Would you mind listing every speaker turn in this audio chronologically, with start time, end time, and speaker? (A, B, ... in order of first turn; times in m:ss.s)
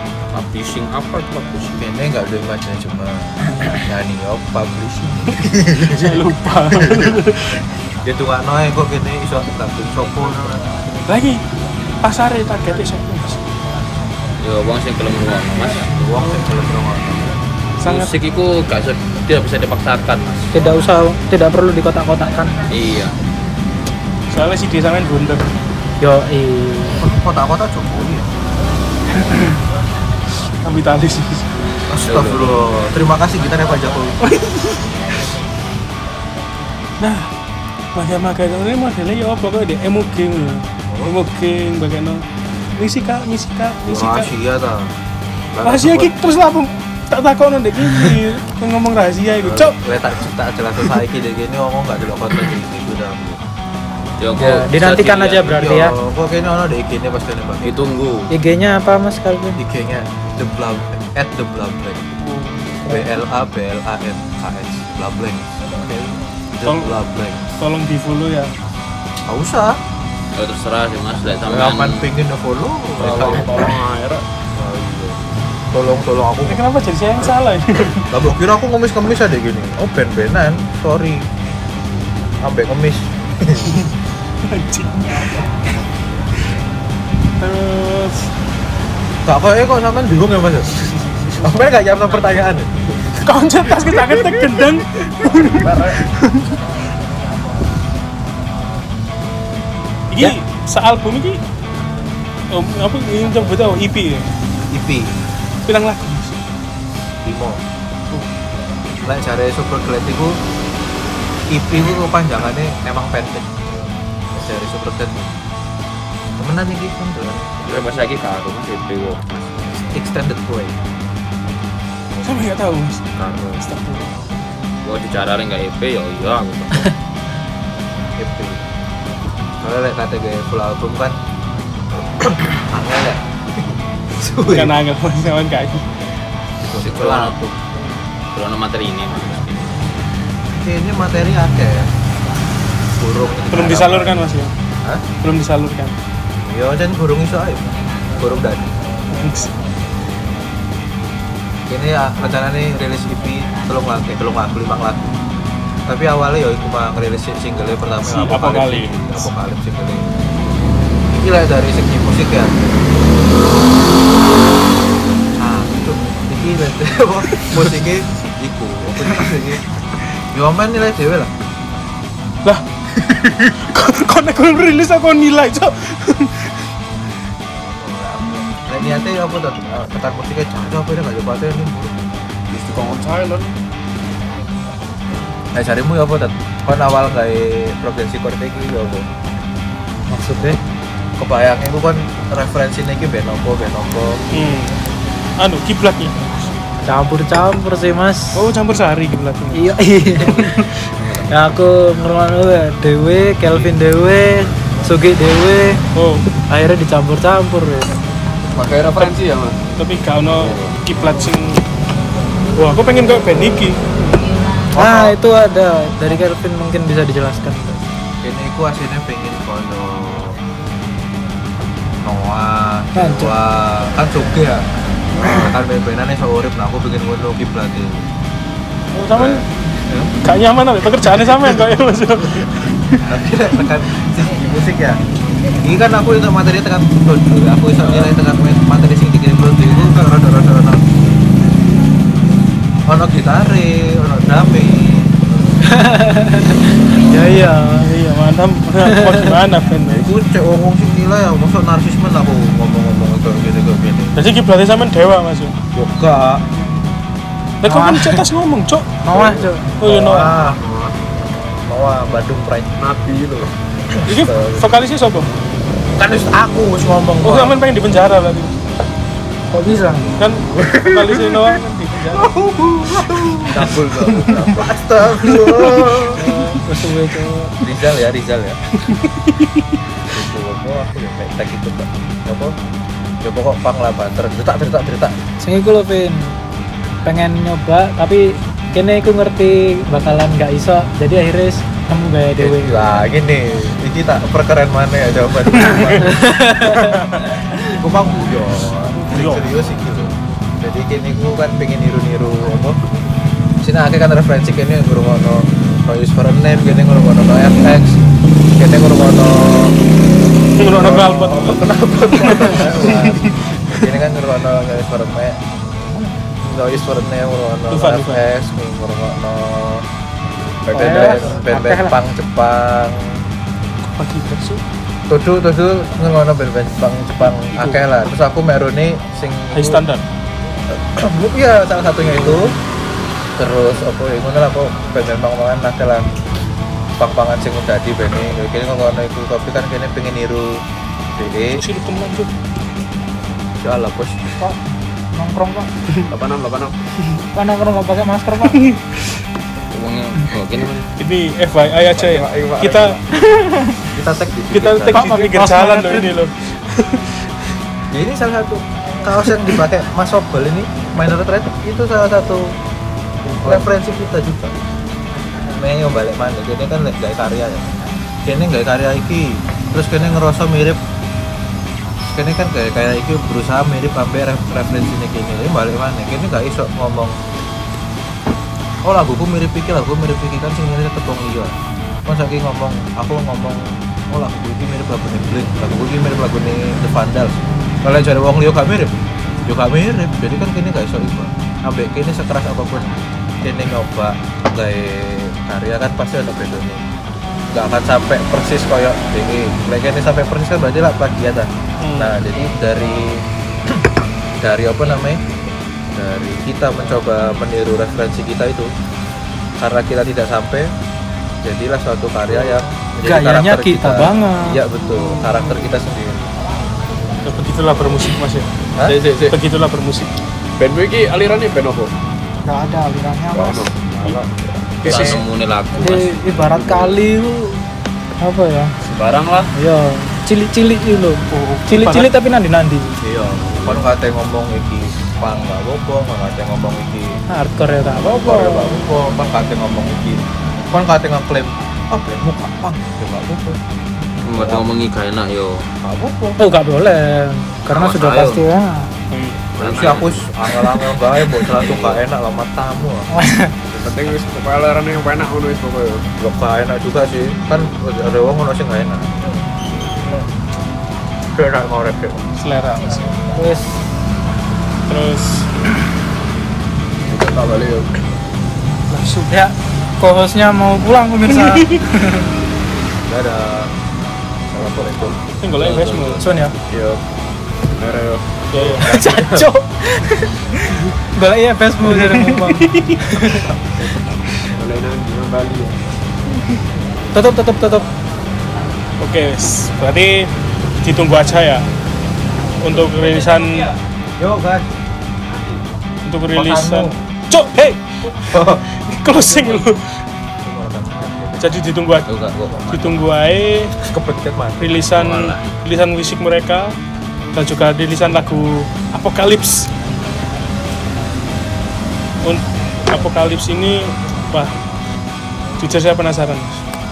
0:00.3-0:01.8 A
0:01.8-0:07.1 B
0:05.8-0:07.6 C
0:08.0-0:10.7 B
0:11.1-0:11.4 C
0:12.0-0:13.4 C
0:14.4-0:15.9 A
0:15.9-0:17.3 B
0:17.8-0:18.1 C
0:17.8-0:20.5 A
0:20.5-0:22.5 D
0:22.7-0:23.1 A
0:24.3-0:25.5 C
0:26.0-0:27.0 D
0:27.0-0:28.3 B
0:29.1-0:29.6 C
0:30.6-0:31.6 C
0:31.9-0:34.2 B
0:32.0-0:32.6 A
0:34.2-0:34.9 C
0:37.0-0:37.3 C
0:37.9-0:42.2 C
0:40.9-0:41.1 B
0:42.8-0:44.3 C
0:43.8-0:44.9 B
0:45.5-0:46.1 B
0:45.6-0:49.8 C
0:49.4-0:53.4 B
0:54.2-0:55.6 A
0:54.4-0:56.0 D
0:55.4-0:57.9 B
0:57.6-0:58.3 A
0:58.3-0:59.6 D
0:59.6-1:02.2 B
1:02.2-1:02.8 C
1:02.9-1:07.6 B
1:06.6-1:06.9 C
1:07.6-1:08.5 C
1:09.3-1:09.8 B
1:10.3-1:12.1 A
1:11.4-1:13.8 B
1:13.0-1:14.2 E
1:13.1-1:13.4 A
1:14.6-1:16.7 B
1:16.5-1:18.1 C
1:18.1-1:21.3 B
1:22.4-1:23.7 B
1:24.4-1:25.4 C
1:27.4-1:28.3 C
1:29.2-1:30.8 B
1:31.4-1:32.9 B
1:33.2-1:36.5 C
1:40.1-1:41.4 C
1:42.5-1:44.3 C
1:44.7-1:45.1 B
1:45.6-1:46.4 C
1:47.2-1:47.6 B
1:49.0-1:50.4 B
1:51.5-1:55.4 B
1:56.4-1:58.0 B
1:57.7-1:59.8 A
1:59.9-2:00.8 B
2:02.2-2:03.0 C
2:03.2-2:03.6 A
2:03.6-2:04.1 C
2:04.8-2:06.9 A
2:08.2-2:08.6 B
2:09.6-2:11.2 B
2:12.2-2:14.8 B
2:14.4-2:15.9 C
2:16.7-2:17.6 B
2:16.8-2:17.4 A
2:18.3-2:19.8 A
2:20.5-2:21.9 B
2:23.0-2:24.3 B
2:23.5-2:24.5 C
2:25.2-2:26.0 C
2:26.4-2:28.8 B
2:29.1-2:29.5 C
2:31.7-2:35.2 B
2:35.8-2:40.1 B
2:38.0-2:39.3 C
2:41.1-2:42.6 B
2:45.4-2:49.6 B
2:47.3-2:47.9 C
2:50.3-2:51.3 B
2:52.4-2:56.7 C
2:57.5-3:01.9 B
3:02.5-3:03.5 E
3:05.5-3:09.1 B
3:10.1-3:10.6 D
3:11.2-3:14.2 B
3:14.3-3:14.7 C
3:15.4-3:16.5 C
3:16.8-3:18.4 D
3:18.3-3:20.6 C
3:19.5-3:20.7 D
3:21.3-3:25.8 D
3:25.9-3:26.2 C
3:26.5-3:27.9 D
3:28.6-3:29.6 E
3:29.8-3:31.6 C
3:32.6-3:34.4 C
3:34.7-3:35.2 B
3:34.7-3:37.8 D
3:38.2-3:40.4 B
3:42.0-3:48.0 B
3:42.9-3:43.3 D
3:48.9-3:49.4 C
3:49.1-3:50.1 B
3:50.2-3:53.0 C
3:53.0-3:55.0 B
3:55.6-4:00.8 B
4:02.9-4:06.6 B
4:05.6-4:07.9 D
4:07.7-4:10.1 C
4:08.8-4:09.3 D
4:09.9-4:14.2 B
4:14.2-4:15.6 C
4:15.7-4:16.4 B
4:17.6-4:19.2 C
4:17.6-4:18.2 D
4:19.0-4:19.7 D
4:19.1-4:20.6 B
4:19.8-4:20.4 C
4:20.4-4:20.9 E
4:21.6-4:22.8 B
4:22.8-4:23.5 E
4:23.9-4:24.7 B
4:24.0-4:25.3 C
4:26.0-4:27.6 B
4:27.2-4:28.5 C
4:29.5-4:30.2 D
4:30.2-4:32.4 C
4:30.5-4:31.6 B
4:32.1-4:36.2 B
4:32.9-4:34.5 C
4:33.5-4:34.5 E
4:35.2-4:36.6 C
4:36.1-4:37.6 D
4:37.6-4:38.6 B
4:38.7-4:39.8 C
4:40.1-4:42.5 B
4:43.2-4:45.2 B
4:45.4-4:46.3 D
4:47.0-4:52.9 D
4:52.4-4:56.2 B
4:55.6-4:57.3 C
4:56.0-4:57.5 D
4:57.7-5:02.8 B
4:59.0-4:59.5 C
5:03.6-5:08.0 B
5:08.5-5:09.8 B
5:10.6-5:13.4 C
5:10.6-5:15.4 B
5:16.4-5:19.8 B
5:17.7-5:18.2 C
5:20.7-5:23.2 B
5:20.7-5:22.0 D
5:23.8-5:24.6 C
5:25.1-5:29.8 B
5:27.5-5:27.8 C
5:29.5-5:30.0 C
5:30.7-5:32.5 B
5:33.4-5:36.1 B
5:37.0-5:40.6 B
5:41.1-5:41.6 B
5:41.6-5:42.3 C
5:43.6-5:44.2 B
5:45.1-5:45.7 D
5:46.1-5:46.8 E
5:47.3-5:48.6 D
5:48.4-5:49.2 C
5:49.7-5:50.9 A
5:51.0-5:53.0 C
5:51.9-5:53.0 E
5:53.9-5:55.1 B
5:54.5-5:57.3 C
5:54.9-5:56.2 D
5:57.9-6:02.5 B
6:03.4-6:04.5 B
6:05.5-6:07.7 B
6:08.2-6:10.8 B
6:12.0-6:17.2 B
6:18.8-6:21.5 B
6:22.0-6:36.8 B
6:37.5-6:43.8 B
6:41.8-6:42.2 C
6:44.4-6:45.2 B
6:45.9-6:48.7 B
6:49.6-6:50.7 B
6:51.4-6:56.3 B
6:53.0-6:54.6 D
6:57.2-6:58.5 C
6:58.8-6:59.4 E
6:59.3-7:00.1 C
7:00.6-7:01.9 E
7:02.4-7:04.2 D
7:03.3-7:05.2 E
7:04.8-7:05.2 D
7:04.8-7:06.3 A
7:05.8-7:07.6 D
7:06.4-7:07.0 E
7:08.2-7:08.7 D
7:08.8-7:09.5 A
7:09.5-7:13.0 D
7:11.3-7:12.1 C
7:13.0-7:17.2 B
7:17.3-7:18.8 D
7:17.9-7:23.6 B
7:24.2-7:24.7 B
7:24.2-7:25.7 A
7:25.8-7:26.4 B
7:26.4-7:28.9 D
7:27.7-7:28.4 A
7:29.1-7:29.5 C
7:29.5-7:30.2 A
7:29.6-7:30.1 E
7:29.6-7:33.1 B
7:30.5-7:31.0 D
7:31.5-7:32.0 A
7:33.1-7:33.5 D
7:33.7-7:36.0 E
7:36.2-7:39.1 B
7:41.3-7:42.2 B
7:42.4-7:43.1 C
7:43.3-7:43.8 D
7:44.9-7:45.5 C
7:47.1-7:48.0 E
7:48.9-7:49.3 C
7:49.2-7:52.3 D
7:51.3-7:51.9 C
7:53.1-7:53.7 B
7:54.5-7:55.2 B
7:55.4-7:56.2 C
7:55.5-7:56.2 A
7:56.2-7:56.5 D
7:56.7-7:57.0 E
7:57.7-7:58.9 E
7:58.5-7:58.9 C
7:58.8-7:59.4 B
7:58.8-8:03.4 D
8:01.8-8:03.3 C
8:03.3-8:03.8 B
8:04.5-8:05.8 E
8:07.1-8:07.9 D
8:09.0-8:10.3 C
8:10.8-8:11.6 C
8:12.6-8:13.7 C
8:14.2-8:14.8 B
8:16.0-8:19.8 C
8:16.3-8:17.0 B
8:18.3-8:19.6 B
8:20.4-8:21.6 B
8:21.4-8:22.1 C
8:22.1-8:23.0 A
8:22.7-8:23.8 C
8:23.8-8:24.9 B
8:24.6-8:26.8 C
8:24.8-8:25.5 A
8:27.3-8:29.7 C
8:32.2-8:34.6 C
8:35.6-8:36.6 C